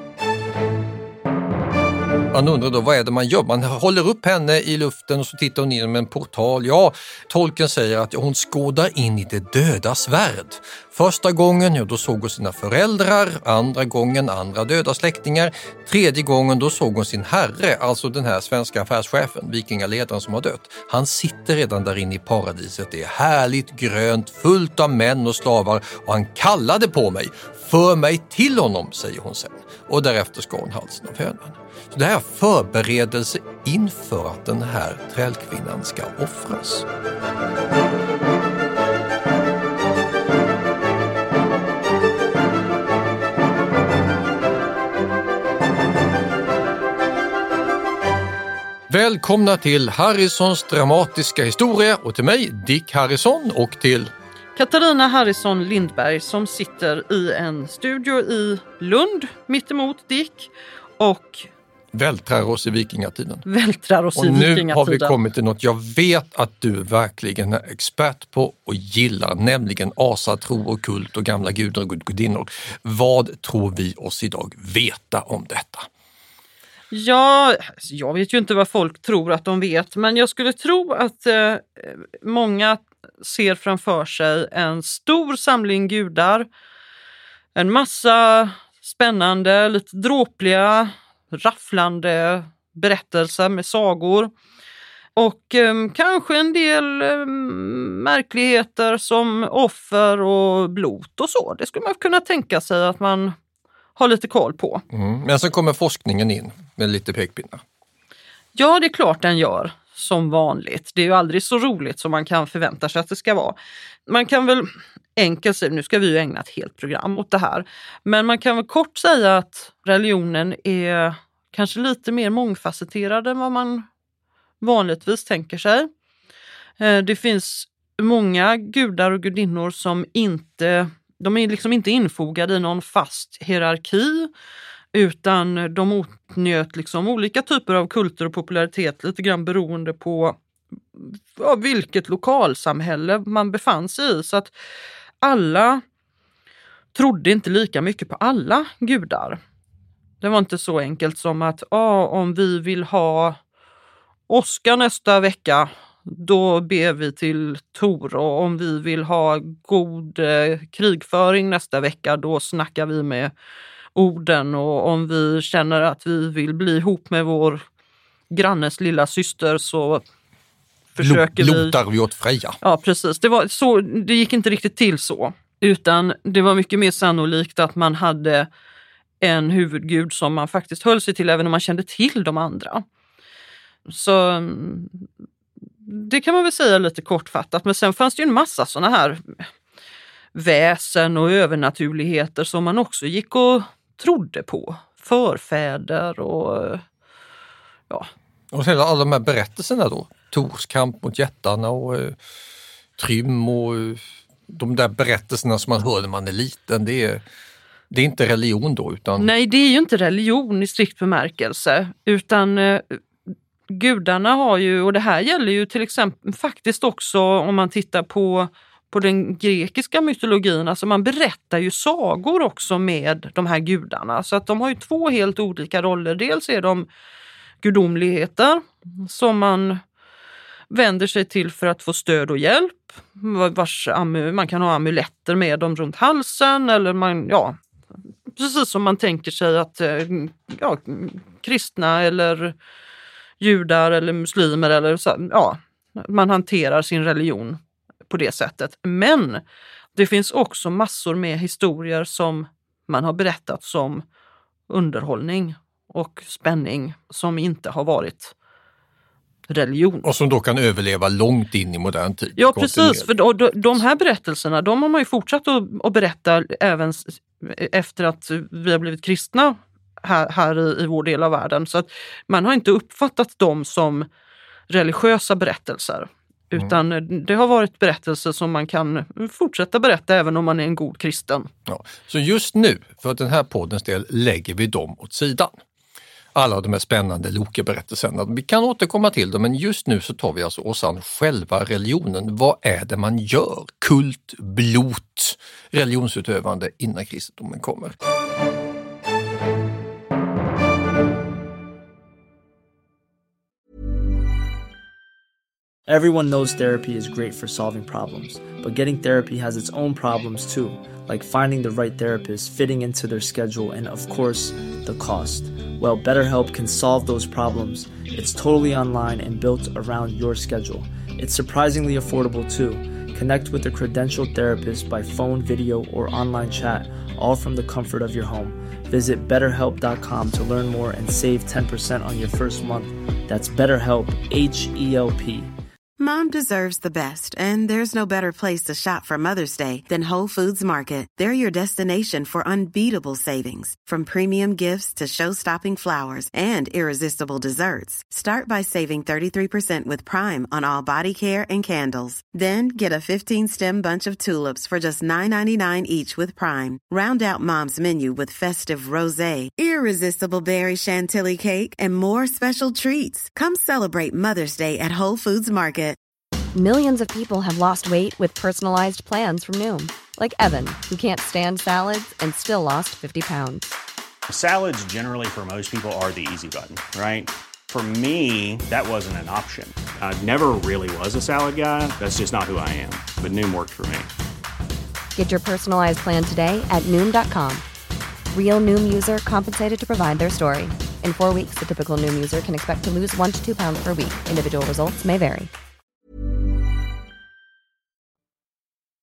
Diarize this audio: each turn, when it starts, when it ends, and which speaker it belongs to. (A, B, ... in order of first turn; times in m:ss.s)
0:02.3-0:36.9 A
0:48.9-0:54.1 A
0:54.6-1:01.5 B
1:01.9-1:03.5 A
1:03.5-1:05.2 B
1:04.2-1:15.9 A
1:16.9-1:26.5 B
1:27.6-1:34.3 B
1:35.2-1:43.4 B
1:44.0-1:44.8 B
1:44.9-1:47.6 A
1:48.6-2:03.9 B
2:04.6-2:05.9 B
2:06.8-2:14.3 B
2:14.9-2:20.4 B
2:21.0-2:24.5 B
2:25.2-2:25.8 B
2:27.0-2:29.4 B
2:30.2-2:33.4 B
2:34.3-2:43.3 B
2:44.0-2:47.6 B
2:48.3-2:50.0 B
2:50.9-2:51.8 B
2:51.0-2:52.6 A
2:52.6-2:58.5 B
2:59.2-3:02.8 B
3:03.9-3:05.0 B
3:05.9-3:09.4 B
3:10.4-3:16.8 B
3:18.5-3:22.2 A
3:23.0-3:27.2 A
3:27.9-3:29.3 A
3:29.2-3:33.0 B
3:33.7-3:46.9 B
3:47.6-3:49.8 B
3:50.7-3:57.6 B
3:58.4-4:02.6 B
4:03.4-4:09.4 B
4:10.0-4:14.0 B
4:14.7-4:18.3 B
4:19.5-4:20.0 B
4:20.0-4:23.1 A
4:22.4-4:34.1 B
4:34.7-4:41.5 B
4:41.7-4:45.6 A
4:46.4-4:58.0 A
5:05.9-5:35.5 C
5:36.0-6:06.0 D
6:06.5-6:13.7 E
6:14.3-6:24.1 F
6:25.2-6:27.6 E
6:28.3-6:35.5 E